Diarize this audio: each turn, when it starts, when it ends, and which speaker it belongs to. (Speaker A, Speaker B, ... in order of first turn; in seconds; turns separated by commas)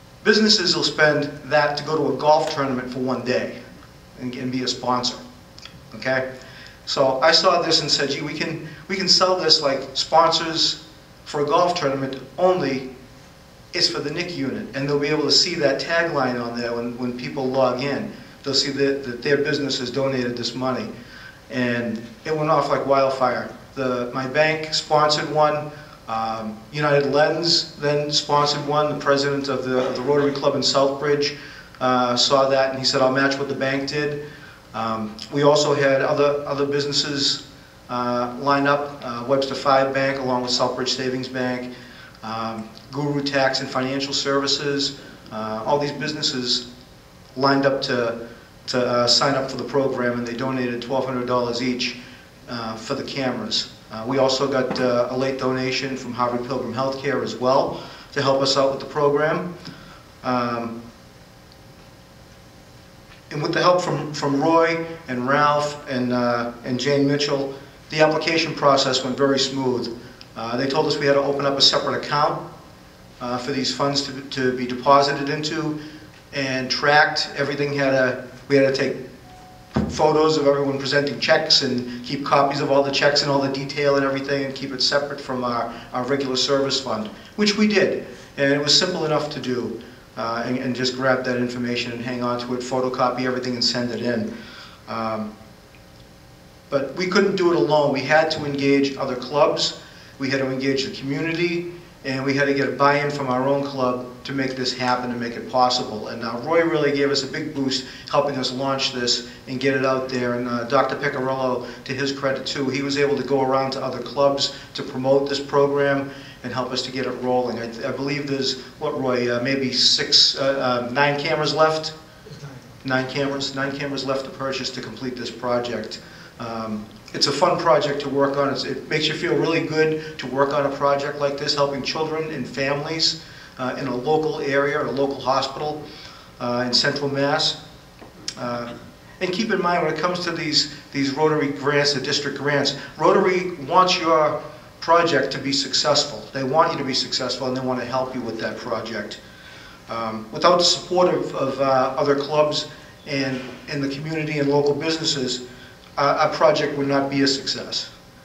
Speaker A: 0.2-3.5, Speaker A: 4.2-5.2, Speaker A: 5.9-6.2, Speaker A: 6.9-12.9, Speaker A: 13.7-20.9, Speaker A: 21.5-34.2, Speaker A: 34.7-41.7, Speaker A: 42.2-46.6, Speaker A: 47.4-59.5, Speaker A: 60.2-60.7, Speaker A: 63.3-72.4, Speaker A: 73.2-75.8, Speaker A: 76.3-79.0, Speaker A: 79.8-94.3, Speaker A: 94.9-95.3, Speaker A: 96.7-121.9, Speaker A: 122.8-135.8, Speaker A: 136.4-137.6, Speaker A: 138.4-149.2, Speaker A: 149.9-155.4, Speaker A: 156.0-157.9